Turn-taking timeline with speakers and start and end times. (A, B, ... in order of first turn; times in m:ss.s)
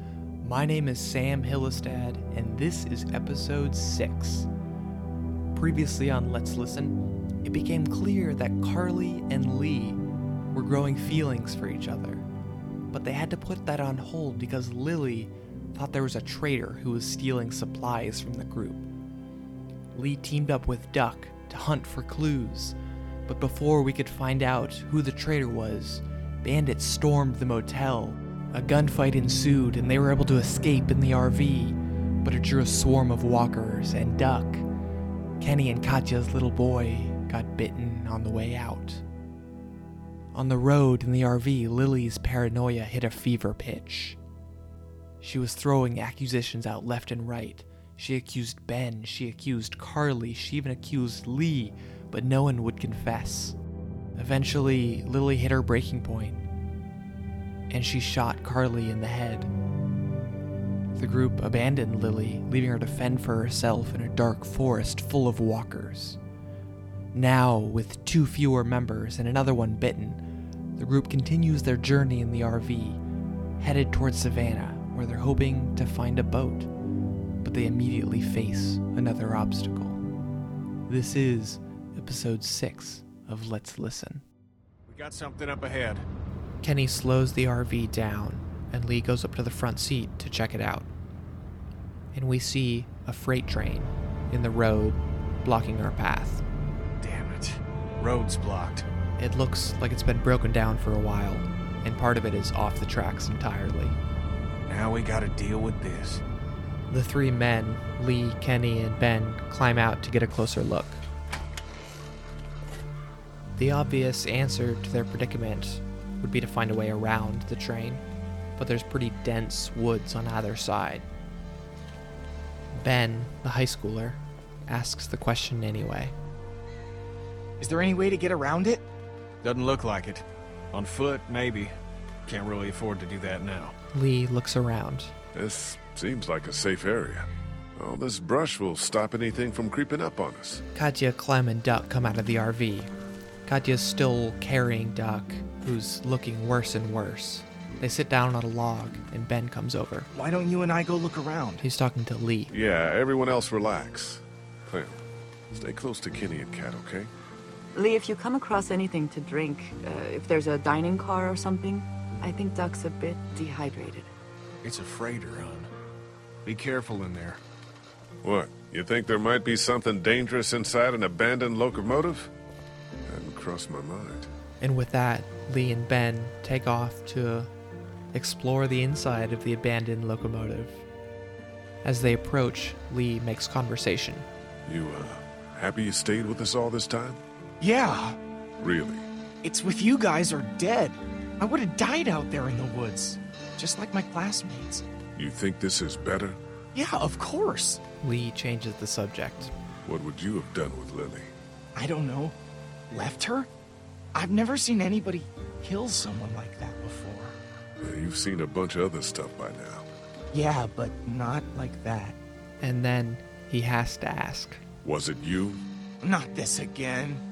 0:00.4-0:04.5 A
0:05.5-0:10.0 A
0:10.5-0:12.2 A
0:12.9-0:18.9 A
0:19.9-0:22.8 A
0:23.3-0:34.6 A
0:35.4-0:39.0 A
0:40.3-0:44.2 A
0:45.2-0:53.6 A
0:54.2-0:56.4 A
0:57.7-0:59.5 A
1:00.9-1:06.2 A
1:07.1-1:10.2 A
1:10.8-1:13.0 A
1:13.6-1:16.7 A
1:17.4-1:20.0 A
1:20.9-1:24.2 A
1:24.9-1:26.0 B
1:26.6-1:30.9 A
1:32.1-1:36.4 A
1:37.0-1:38.8 B
1:39.2-1:44.0 A
1:44.7-1:46.2 B
1:46.9-1:51.0 A
1:53.6-1:58.0 A
1:58.6-2:01.0 A
2:02.8-2:06.1 A
2:07.6-2:08.8 C
2:09.4-2:11.7 B
2:12.2-2:13.7 B
2:13.9-2:15.1 A
2:15.3-2:20.6 D
2:20.7-2:22.9 A
2:23.4-2:30.1 A
2:30.1-2:31.6 C
2:31.6-2:32.5 A
2:32.5-2:35.0 D
2:35.5-2:37.1 D
2:37.7-2:44.1 E
2:44.6-2:45.7 B
2:46.4-2:47.4 B
2:48.2-2:52.3 D
2:53.0-2:54.3 D
2:54.6-2:57.5 A
2:58.1-3:00.8 A
3:01.8-3:04.3 A
3:04.6-3:07.2 D
3:07.6-3:08.2 C
3:08.6-3:09.0 D
3:09.4-3:14.8 C
3:15.1-3:16.4 D
3:16.7-3:17.8 C
3:18.0-3:19.5 A
3:19.8-3:21.3 D
3:21.7-3:22.3 C
3:22.9-3:23.5 C
3:24.1-3:27.4 C
3:27.8-3:29.9 D
3:30.3-3:32.2 C
3:32.6-3:34.6 A
3:34.8-3:35.6 D
3:36.0-3:37.2 C